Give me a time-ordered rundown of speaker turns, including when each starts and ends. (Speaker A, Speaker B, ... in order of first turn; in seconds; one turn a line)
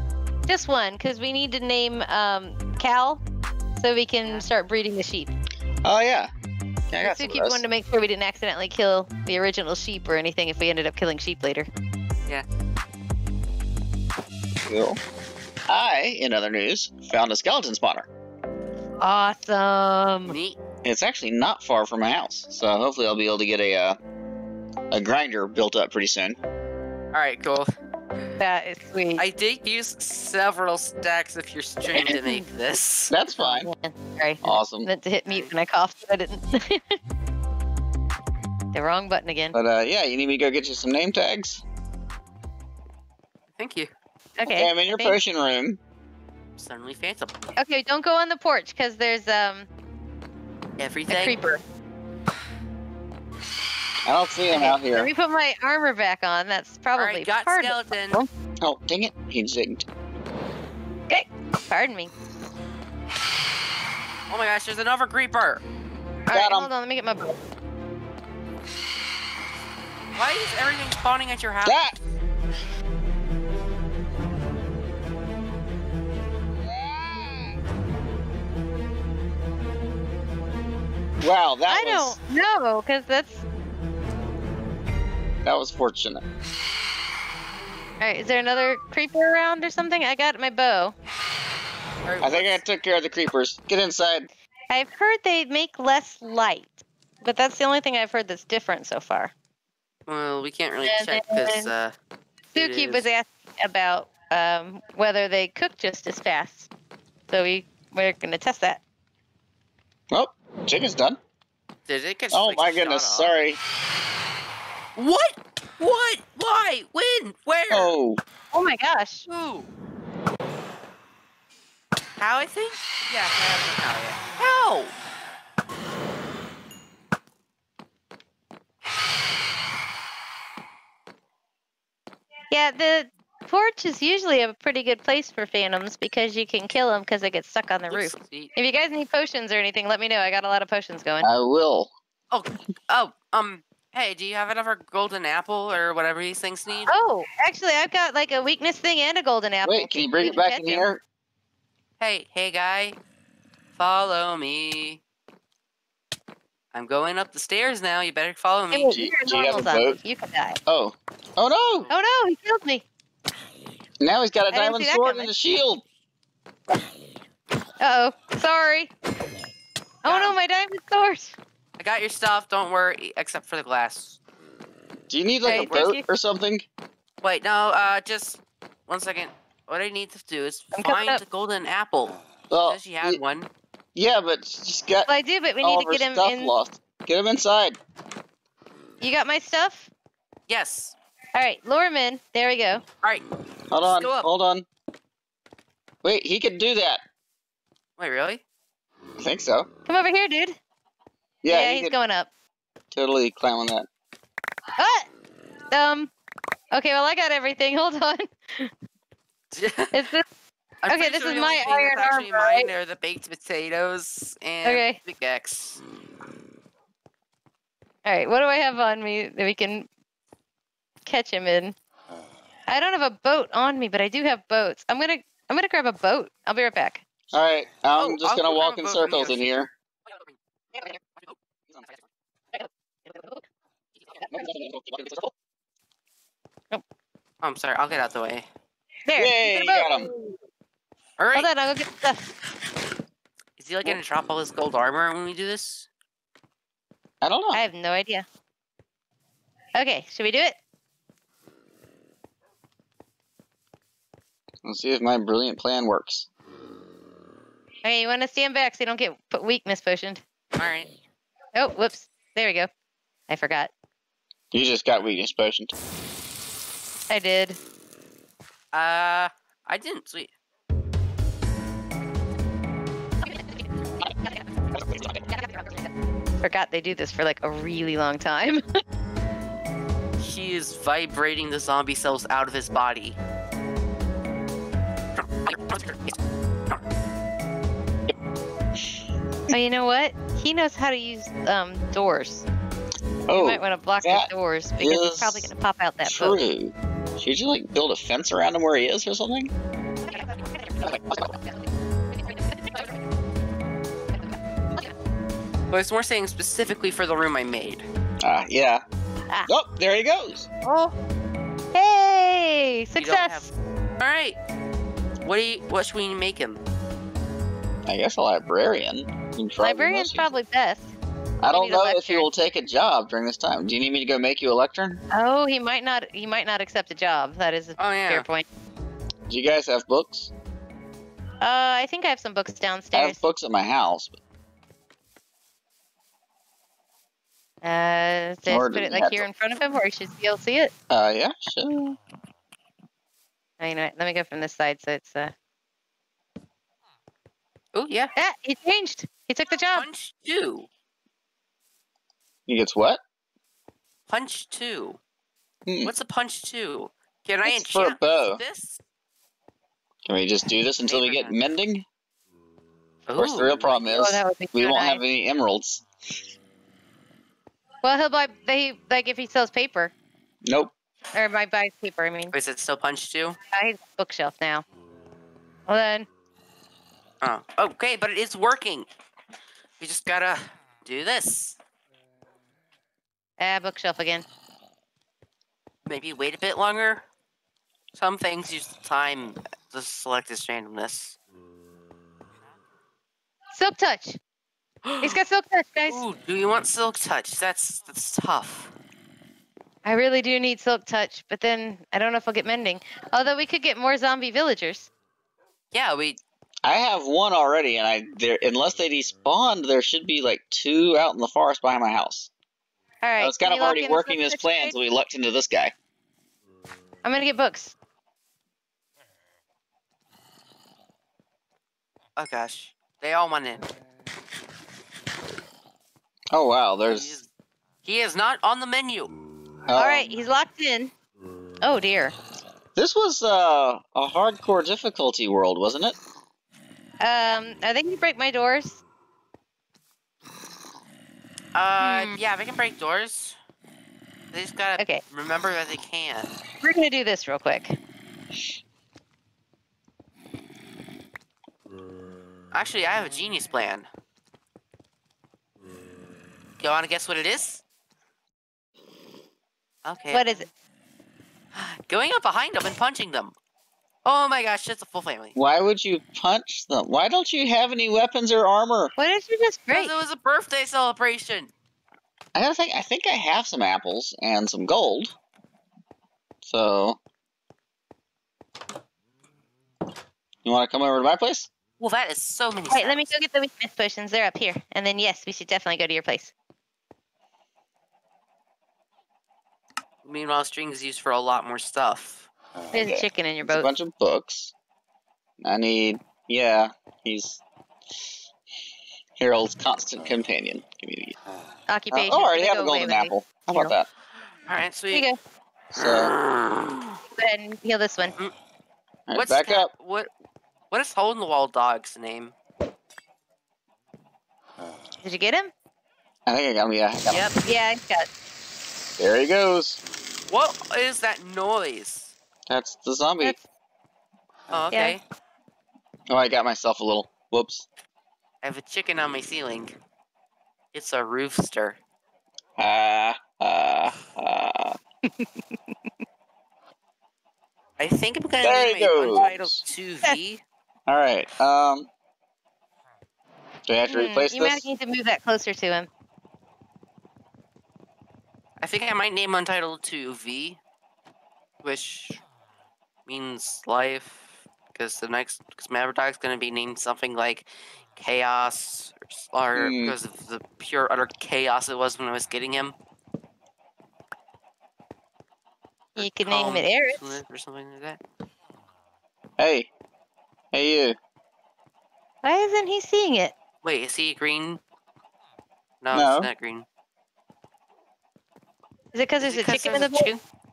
Speaker A: 0.5-3.2
Speaker A: 3.8-5.3
Speaker B: 5.8-6.3
Speaker B: 6.9-7.6
Speaker A: 7.0-11.7
Speaker B: 14.7-15.0
Speaker B: 15.7-18.1
Speaker A: 19.0-20.4
Speaker C: 20.3-20.6
Speaker B: 20.8-24.0
Speaker B: 24.9-26.4
Speaker C: 27.1-27.7
Speaker A: 28.4-29.2
Speaker C: 29.2-33.1
Speaker A: 31.9-32.4
Speaker B: 33.1-33.7
Speaker A: 33.4-37.0
Speaker B: 34.4-34.9
Speaker A: 38.7-39.5
Speaker B: 39.5-41.6
Speaker C: 43.5-43.9
Speaker A: 44.4-45.2
Speaker B: 44.5-45.8
Speaker C: 46.6-47.3
Speaker A: 47.6-49.7
Speaker C: 50.8-51.4
Speaker A: 51.1-51.6
Speaker B: 54.0-55.1
Speaker A: 54.5-58.3
Speaker C: 57.0-58.2
Speaker B: 58.6-59.9
Speaker A: 61.1-62.1
Speaker C: 64.3-65.6
Speaker A: 66.3-67.4
Speaker B: 66.3-66.7
Speaker C: 70.2-71.8
Speaker B: 71.6-72.0
Speaker B: 76.7-77.5
Speaker B: 81.2-82.2
Speaker A: 81.7-83.5
Speaker B: 85.5-86.2
Speaker A: 88.0-91.0
Speaker C: 92.0-92.6
Speaker B: 92.2-94.3
Speaker A: 94.7-99.3
Speaker C: 100.1-102.0
Speaker A: 100.8-101.7
Speaker C: 102.5-103.1
Speaker A: 102.5-106.7
Speaker A: 107.3-108.8
Speaker B: 110.1-111.2
Speaker C: 111.9-113.3
Speaker B: 112.3-113.6
Speaker C: 115.0-117.9
Speaker B: 117.7-118.2
Speaker A: 118.5-119.3
Speaker C: 119.3-119.7
Speaker C: 122.2-125.0
Speaker A: 132.5-141.3
Speaker C: 137.9-138.5
Speaker B: 141.2-141.9
Speaker C: 142.3-146.9
Speaker A: 146.9-150.9
Speaker B: 149.6-151.0
Speaker C: 152.0-153.0
Speaker C: 153.8-155.0
Speaker C: 156.7-158.9
Speaker A: 158.7-160.6
Speaker B: 158.9-160.0
Speaker B: 160.7-161.9
Speaker A: 161.9-162.9
Speaker B: 164.0-165.8
Speaker A: 164.5-165.3
Speaker A: 167.8-168.9
Speaker A: 170.0-171.4
Speaker C: 170.1-170.4
Speaker C: 171.8-174.2
Speaker B: 175.1-176.7
Speaker A: 175.4-176.0
Speaker C: 175.5-175.8
Speaker C: 177.2-183.5
Speaker A: 180.7-181.2
Speaker B: 182.5-183.2
Speaker B: 183.9-185.1
Speaker A: 185.1-186.5
Speaker B: 185.6-187.8
Speaker A: 189.0-189.9
Speaker C: 190.5-190.9
Speaker A: 191.3-192.8
Speaker B: 193.7-194.7
Speaker C: 193.8-194.3
Speaker B: 196.0-197.0
Speaker C: 198.0-198.4
Speaker B: 199.2-199.7
Speaker A: 199.9-200.6
Speaker B: 201.4-201.9
Speaker A: 201.5-202.3
Speaker B: 202.9-203.9
Speaker A: 204.8-205.1
Speaker A: 205.7-206.1
Speaker A: 206.7-208.7
Speaker C: 209.5-210.0
Speaker A: 209.9-210.2
Speaker C: 210.8-215.8
Speaker A: 210.9-212.7
Speaker A: 214.6-215.0
Speaker A: 218.1-219.9
Speaker A: 221.1-221.8
Speaker A: 222.7-227.0
Speaker B: 227.3-229.7
Speaker C: 228.0-229.4
Speaker A: 233.1-233.4
Speaker B: 234.3-235.3
Speaker C: 237.4-238.5
Speaker A: 239.1-240.3
Speaker B: 239.2-240.1
Speaker C: 241.2-241.5
Speaker A: 241.3-242.3
Speaker C: 243.6-245.9
Speaker B: 247.2-247.6
Speaker A: 247.5-248.3
Speaker A: 249.8-250.6
Speaker B: 254.6-256.3
Speaker A: 257.8-260.2
Speaker C: 260.6-260.9
Speaker A: 261.6-262.7
Speaker A: 263.3-263.7
Speaker B: 264.5-265.7
Speaker A: 267.1-267.6
Speaker C: 268.7-270.3
Speaker A: 276.4-278.6
Speaker C: 280.2-283.2
Speaker C: 285.5-286.1
Speaker A: 289.5-292.5
Speaker B: 293.3-295.5
Speaker A: 293.3-296.4
Speaker B: 296.1-299.5
Speaker B: 300.9-301.3
Speaker C: 305.7-307.9
Speaker B: 308.2-308.8
Speaker B: 309.5-310.5
Speaker C: 310.6-310.9
Speaker A: 311.7-313.5
Speaker C: 313.0-314.4
Speaker C: 315.2-316.6
Speaker B: 317.9-320.3
Speaker A: 319.6-320.9
Speaker B: 321.4-325.0
Speaker A: 321.5-322.3
Speaker A: 325.1-328.5
Speaker C: 327.8-328.3
Speaker B: 329.3-330.3
Speaker A: 331.4-333.2
Speaker B: 332.9-334.1
Speaker A: 337.6-340.7
Speaker B: 338.5-339.3
Speaker B: 340.9-342.0
Speaker A: 343.6-345.3
Speaker C: 347.7-348.1
Speaker A: 348.2-349.9
Speaker C: 349.7-350.7
Speaker B: 352.5-353.0
Speaker C: 354.1-355.0
Speaker B: 355.7-355.9
Speaker C: 355.8-358.8
Speaker B: 357.5-358.4
Speaker B: 360.1-361.9
Speaker C: 360.8-361.4
Speaker C: 363.1-363.8
Speaker B: 363.1-365.8
Speaker A: 363.9-365.0
Speaker A: 367.8-369.9
Speaker B: 370.5-370.7
Speaker A: 371.1-372.3
Speaker C: 372.3-373.4
Speaker A: 373.5-374.6
Speaker A: 375.7-376.1
Speaker C: 377.2-378.9
Speaker C: 379.8-381.6
Speaker A: 383.4-384.3
Speaker C: 385.9-387.0
Speaker C: 387.9-391.2
Speaker A: 393.5-394.2
Speaker C: 394.8-395.2
Speaker A: 395.0-396.0
Speaker C: 395.9-398.7
Speaker A: 399.9-404.9
Speaker C: 405.7-406.2
Speaker B: 406.6-412.3
Speaker A: 413.0-414.7
Speaker B: 413.2-415.7
Speaker A: 417.0-417.8
Speaker C: 422.2-423.6
Speaker B: 426.3-427.2
Speaker C: 426.8-427.3
Speaker C: 427.8-429.1
Speaker B: 429.7-430.1
Speaker A: 429.7-430.9
Speaker A: 431.6-432.1
Speaker B: 432.8-436.0
Speaker A: 437.0-438.8
Speaker C: 441.6-443.4
Speaker A: 441.8-442.2
Speaker C: 444.3-446.4
Speaker A: 446.6-447.8
Speaker C: 452.5-453.9
Speaker C: 456.6-457.6
Speaker C: 459.8-460.5
Speaker A: 460.1-460.5
Speaker C: 461.5-463.4
Speaker C: 464.1-465.4
Speaker B: 465.4-468.9
Speaker A: 469.0-469.9
Speaker C: 469.7-471.5
Speaker B: 472.4-475.1
Speaker B: 476.4-477.0
Speaker B: 480.4-481.5
Speaker C: 481.8-483.1
Speaker A: 482.7-486.3
Speaker C: 490.0-492.3
Speaker A: 492.7-493.7
Speaker B: 492.7-494.5
Speaker B: 495.4-497.4
Speaker B: 499.2-501.2
Speaker A: 501.7-503.7
Speaker B: 501.9-503.9
Speaker C: 504.5-505.1
Speaker A: 504.9-505.2
Speaker B: 505.7-506.1
Speaker C: 505.8-507.0
Speaker A: 507.1-508.1
Speaker B: 509.1-509.7
Speaker C: 509.1-510.1
Speaker C: 510.7-512.4
Speaker A: 515.0-515.5
Speaker B: 516.3-517.2
Speaker C: 517.1-517.4
Speaker A: 517.4-518.1
Speaker B: 519.0-519.8
Speaker C: 520.3-522.1
Speaker B: 522.5-523.4
Speaker C: 524.5-525.0
Speaker A: 524.7-525.0
Speaker B: 526.1-527.7
Speaker C: 528.4-529.8
Speaker C: 530.7-531.8
Speaker B: 532.6-534.8
Speaker C: 537.8-540.4
Speaker B: 538.4-539.6
Speaker B: 540.9-541.9
Speaker B: 543.7-544.7
Speaker A: 543.9-545.9
Speaker C: 548.6-550.6
Speaker C: 551.6-552.2
Speaker C: 553.1-562.8
Speaker B: 559.5-560.0
Speaker C: 566.0-568.0
Speaker A: 566.0-567.2
Speaker B: 569.4-569.7
Speaker B: 570.5-571.0
Speaker A: 572.2-573.3
Speaker C: 573.6-574.6
Speaker C: 575.8-576.7
Speaker B: 575.9-576.3
Speaker A: 578.9-580.1
Speaker C: 579.2-580.2